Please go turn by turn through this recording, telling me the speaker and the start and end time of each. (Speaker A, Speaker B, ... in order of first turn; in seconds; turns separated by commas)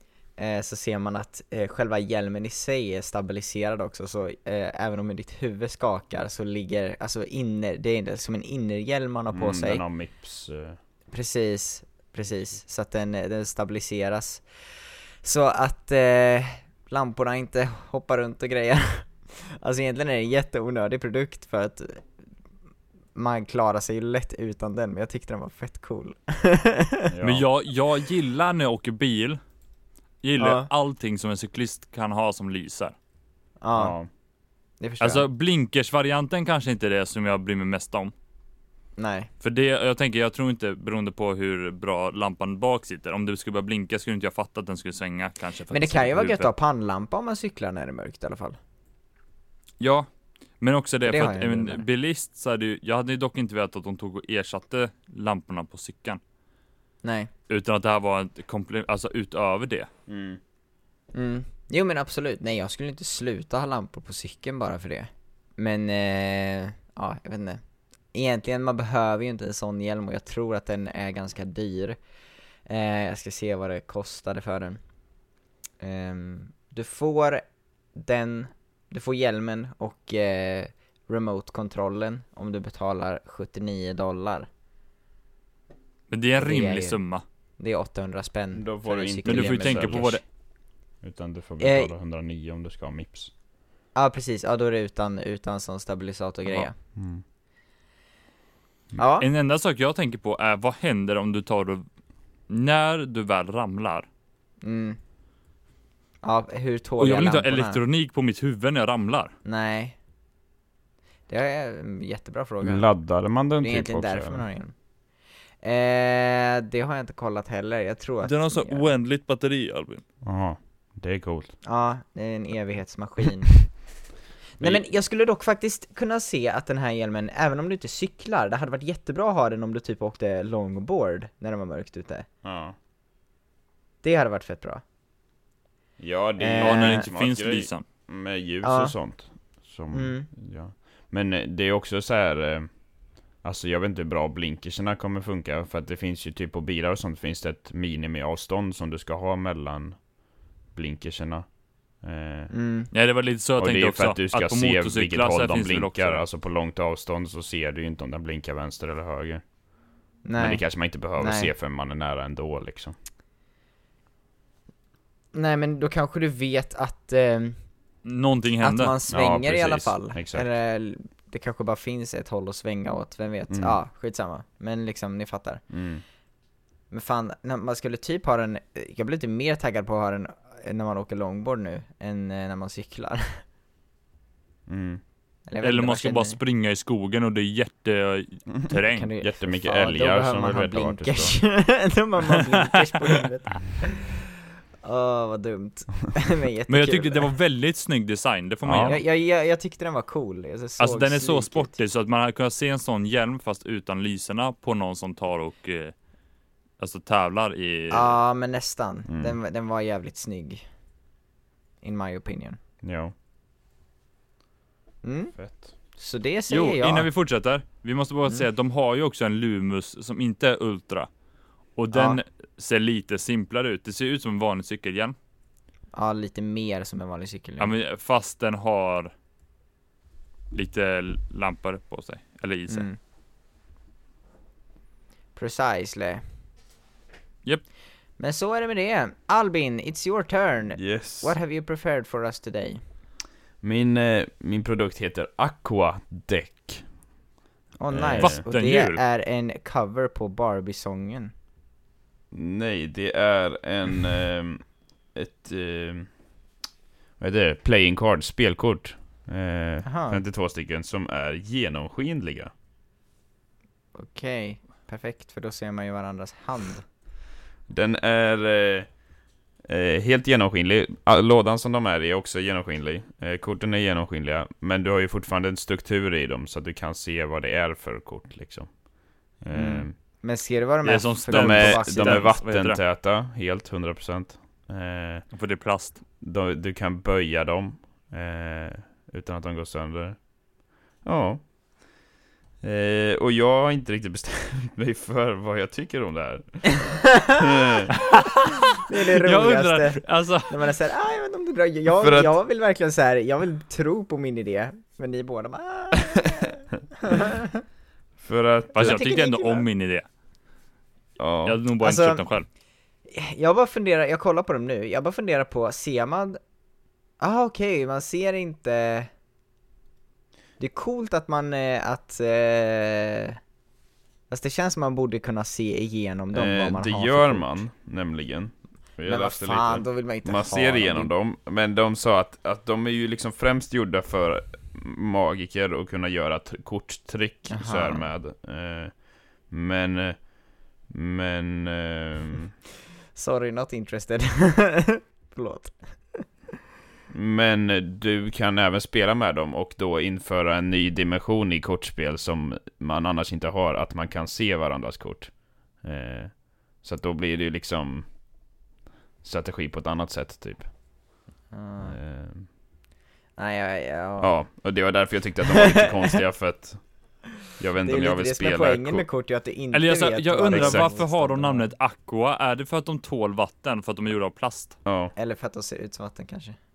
Speaker A: 0.4-9.8, Speaker B: 9.3-10.8, Speaker A: 11.1-14.4, Speaker A: 15.2-22.1, Speaker A: 23.1-27.1, Speaker B: 27.1-27.5, Speaker C: 27.2-29.4, Speaker C: 30.2-33.0, Speaker A: 30.4-30.7, Speaker A: 33.6-34.0, Speaker B: 33.8-34.1, Speaker A: 34.8-35.3, Speaker C: 35.0-38.1, Speaker A: 39.0-39.3, Speaker C: 39.4-46.5, Speaker A: 45.7-48.6, Speaker C: 49.8-50.1, Speaker C: 50.6-56.2, Speaker A: 51.0-51.8, Speaker A: 57.0-57.3, Speaker C: 57.5-59.9, Speaker B: 60.1-60.4, Speaker A: 61.1-67.6, Speaker A: 68.1-72.0, Speaker A: 72.7-74.8, Speaker A: 75.8-77.4, Speaker A: 78.0-84.5, Speaker C: 86.1-87.2, Speaker A: 86.4-87.0, Speaker A: 87.6-90.2, Speaker B: 88.6-90.2, Speaker C: 89.2-90.2, Speaker B: 91.0-93.3, Speaker A: 91.6-91.9, Speaker A: 94.0-96.7, Speaker B: 97.0-97.2, Speaker A: 99.0-99.3, Speaker C: 99.2-101.8, Speaker C: 102.5-104.1, Speaker A: 104.6-105.0, Speaker A: 106.2-107.8, Speaker C: 107.0-109.3, Speaker A: 109.5-110.0, Speaker A: 111.3-112.8, Speaker B: 112.6-114.5, Speaker A: 113.6-114.7, Speaker A: 115.6-118.9, Speaker C: 118.2-120.0, Speaker B: 120.2-121.5, Speaker A: 121.6-123.6, Speaker A: 124.6-132.3, Speaker B: 132.4-132.8, Speaker A: 134.0-134.8, Speaker B: 136.0-142.8, Speaker A: 136.4-137.1, Speaker C: 136.6-137.8, Speaker A: 138.6-138.9, Speaker A: 139.9-140.3, Speaker B: 143.4-150.0, Speaker B: 150.8-151.5, Speaker B: 152.0-152.5, Speaker A: 152.5-152.9, Speaker C: 152.9-156.2, Speaker B: 153.6-159.4, Speaker A: 160.2-160.6, Speaker B: 160.4-162.9, Speaker A: 161.2-161.5, Speaker A: 165.3-167.6, Speaker C: 168.0-169.0, Speaker A: 168.6-175.6, Speaker B: 169.1-170.5, Speaker B: 173.5-173.8, Speaker B: 175.7-176.0, Speaker A: 176.9-183.4, Speaker B: 184.7-185.0, Speaker A: 185.5-186.4, Speaker C: 185.6-189.1, Speaker A: 188.9-194.3, Speaker B: 189.2-191.4, Speaker A: 194.8-197.3, Speaker C: 196.7-199.0, Speaker B: 198.7-199.0, Speaker A: 198.8-201.8, Speaker C: 200.8-205.9, Speaker C: 206.8-208.2, Speaker A: 207.9-210.6, Speaker B: 209.1-209.4, Speaker A: 211.8-212.6, Speaker B: 212.8-213.1, Speaker A: 215.0-215.4, Speaker B: 215.4-215.7, Speaker A: 215.9-217.1, Speaker C: 216.5-221.1, Speaker C: 221.8-225.2, Speaker A: 221.9-222.2, Speaker A: 225.9-227.7, Speaker C: 227.6-229.1, Speaker C: 230.5-232.9, Speaker A: 232.7-233.0, Speaker A: 235.4-236.2, Speaker A: 238.2-242.8, Speaker B: 240.8-241.3, Speaker B: 243.6-246.9, Speaker A: 247.8-251.3, Speaker B: 247.9-248.4, Speaker C: 248.2-249.0, Speaker B: 252.3-256.1, Speaker B: 257.2-262.5, Speaker A: 259.8-260.2, Speaker A: 263.9-266.9, Speaker B: 267.7-268.9, Speaker B: 269.6-278.8, Speaker B: 279.4-279.9, Speaker A: 279.5-282.4, Speaker C: 280.8-282.8, Speaker B: 281.3-285.2, Speaker C: 285.3-286.0, Speaker B: 286.2-290.3, Speaker B: 291.0-291.4, Speaker B: 292.6-297.9, Speaker A: 296.8-297.8, Speaker C: 298.0-300.7, Speaker A: 298.8-307.6, Speaker B: 302.0-302.3, Speaker B: 308.2-309.0, Speaker C: 308.7-310.1, Speaker A: 308.8-309.6, Speaker B: 311.2-311.6, Speaker C: 311.4-312.5, Speaker A: 311.8-312.2, Speaker A: 313.1-316.4, Speaker A: 317.2-319.1, Speaker A: 320.6-323.4, Speaker A: 324.3-327.6, Speaker B: 326.3-338.9, Speaker A: 329.1-331.1, Speaker A: 337.5-338.1, Speaker B: 339.5-340.3, Speaker B: 340.9-342.5, Speaker A: 343.1-346.3, Speaker B: 347.1-358.1, Speaker B: 359.2-360.7, Speaker A: 361.5-362.0, Speaker B: 361.8-362.4, Speaker A: 363.4-364.4, Speaker B: 364.2-366.9, Speaker A: 365.6-366.2, Speaker B: 367.6-369.1, Speaker A: 367.8-371.7, Speaker C: 369.7-374.8, Speaker B: 370.5-370.9, Speaker B: 374.9-375.1, Speaker A: 375.2-376.6